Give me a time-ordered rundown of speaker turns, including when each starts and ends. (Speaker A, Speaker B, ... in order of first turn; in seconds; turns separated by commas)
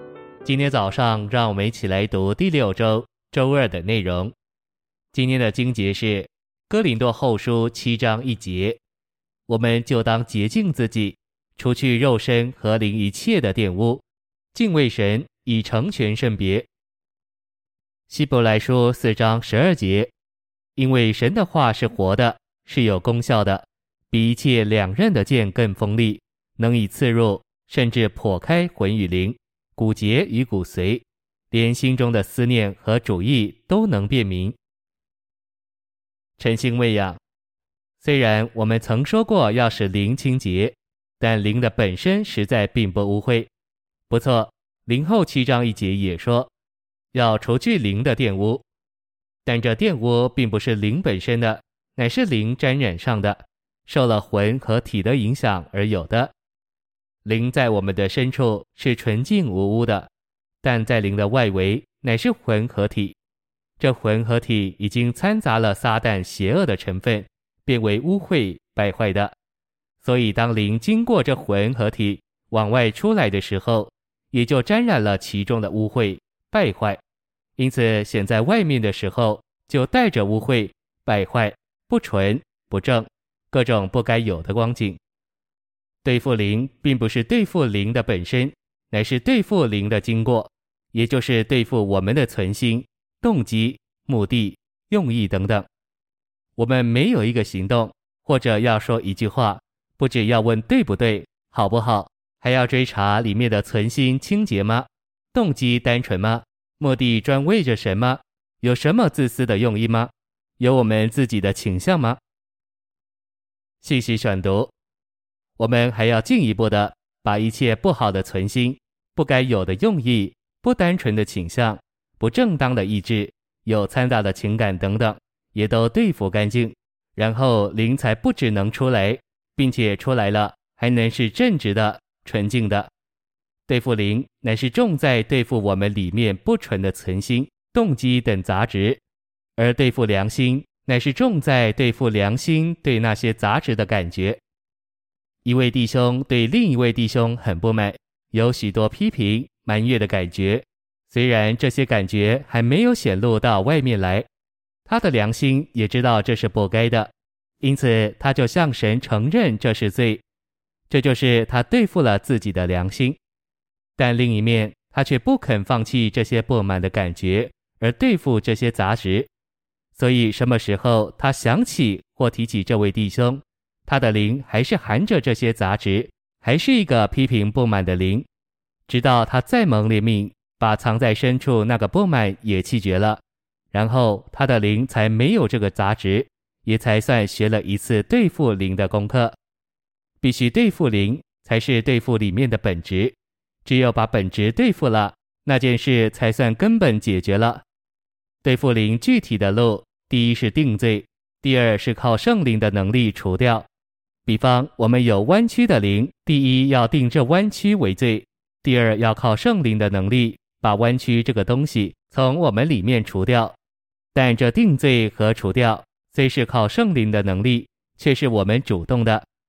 Speaker A: 0.4-4.3, Speaker A: 5.1-8.8, Speaker A: 9.5-16.7, Speaker A: 18.1-20.1, Speaker A: 20.8-34.6, Speaker A: 36.4-37.2, Speaker A: 38.0-43.5, Speaker A: 44.1-46.5, Speaker A: 47.1-48.6, Speaker A: 49.4-56.3, Speaker A: 57.2-60.1, Speaker A: 60.6-63.1, Speaker A: 63.8-69.3, Speaker A: 70.0-77.0, Speaker A: 77.6-85.0, Speaker A: 86.0-95.7, Speaker A: 96.6-112.2, Speaker A: 113.8-114.7, Speaker A: 115.6-132.9, Speaker A: 133.7-139.0, Speaker A: 139.6-144.4, Speaker A: 145.4-154.3, Speaker A: 154.8-160.2, Speaker A: 160.9-163.2, Speaker A: 163.9-169.3, Speaker A: 169.9-178.2, Speaker A: 178.9-183.2, Speaker A: 183.7-189.3, Speaker A: 190.2-197.6, Speaker A: 198.4-203.7, Speaker A: 204.2-213.6, Speaker A: 214.1-219.2